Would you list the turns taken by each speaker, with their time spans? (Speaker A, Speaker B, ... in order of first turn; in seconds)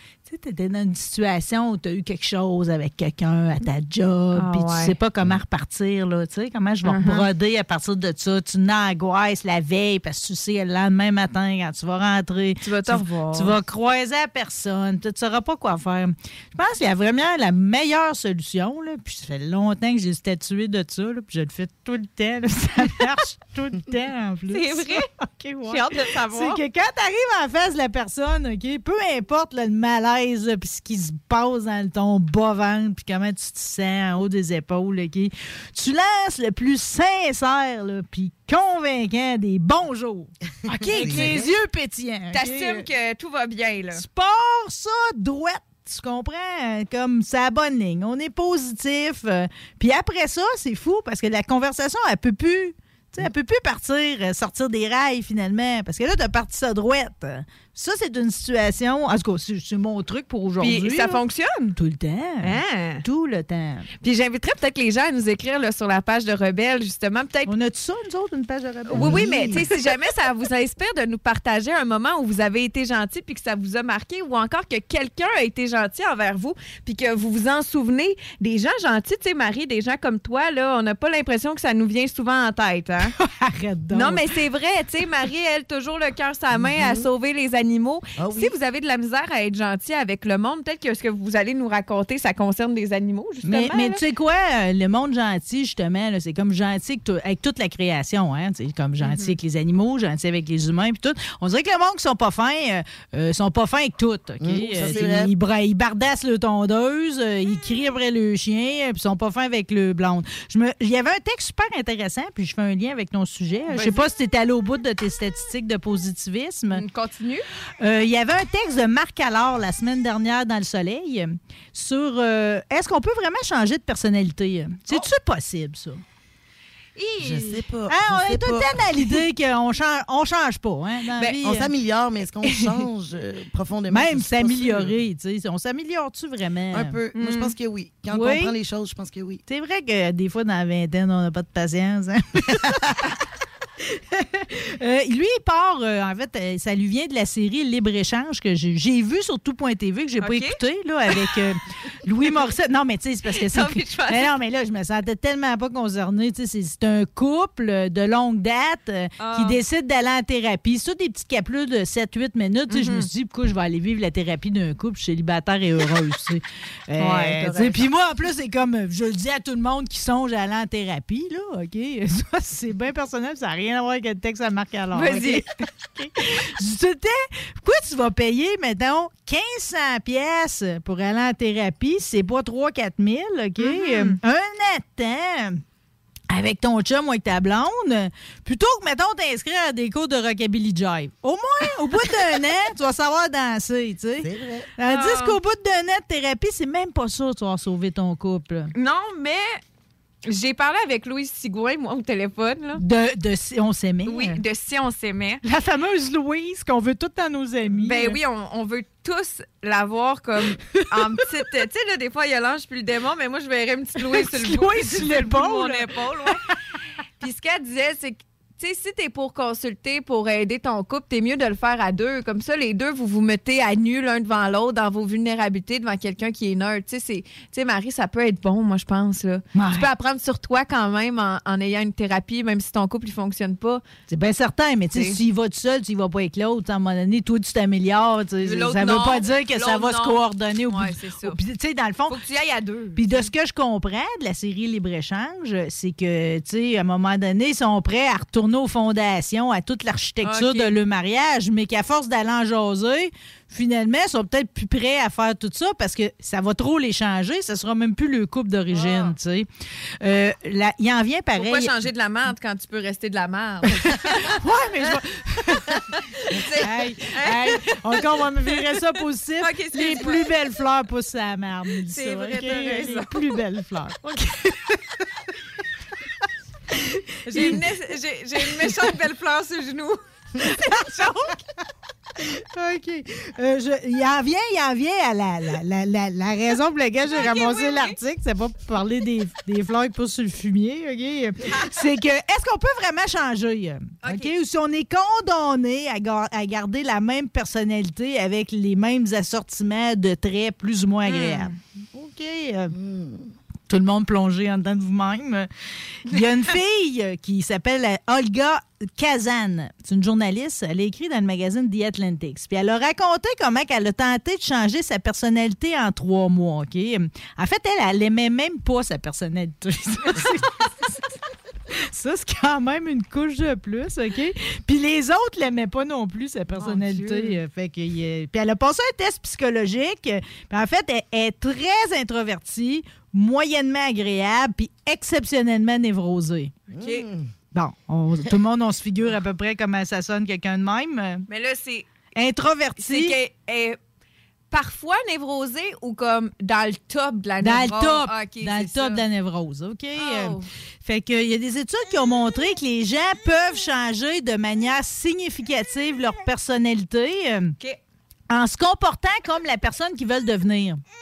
Speaker A: 0.3-42.9, 43.9-61.2, 61.8-63.9, 67.5-69.7, 83.2-84.3, 93.4-116.8, 117.8-126.0, 127.9-131.7, 133.9-136.9, 138.1-138.5, 139.5-143.0, 143.8-185.6, 186.3-198.7, 202.8-204.4, 205.4-208.2, 214.1-215.9, 229.6-229.9, 234.1-242.2, 243.0-259.5, 260.0-261.7, 263.7-265.9, 266.6-274.8, 277.2-277.7, 278.6-278.9, 280.4-281.1, 282.2-302.7, 303.7-305.5, 306.1-321.0, 321.7-336.6, 337.5-341.2, 342.2-343.2, 347.4-357.6, 358.3-360.8
Speaker B: 4.3-5.0, 6.8-7.3, 12.6-13.5, 24.5-25.1, 25.6-26.6, 40.9-41.4, 42.3-44.0, 60.6-61.8, 62.4-63.0, 64.0-67.5, 68.9-83.2, 83.9-94.0, 99.0-99.4, 113.7-114.0, 116.7-117.5, 137.2-137.5, 150.2-150.6, 153.3-154.3, 159.2-159.6, 162.7-163.1, 167.0-167.9, 174.9-175.5, 183.6-184.2, 194.9-195.4, 198.7-199.6, 200.3-202.8, 204.1-205.4, 207.8-216.4, 217.2-233.8, 238.4-241.4, 242.1-243.3, 250.2-250.7, 258.7-259.1, 261.4-264.3, 265.9-270.3, 271.9-273.3, 277.3-281.4, 287.1-288.0, 294.0-294.3, 301.1-301.6, 326.6-327.4, 336.8-337.1, 341.3-341.9, 342.8-343.8, 344.5-349.0, 350.0-350.5
Speaker C: 40.9-41.5, 68.9-69.5, 86.5-87.1, 88.2-88.5, 104.4-105.3, 127.2-129.1, 131.4-134.9, 136.7-139.4, 194.2-194.7, 302.7-303.3, 336.7-337.3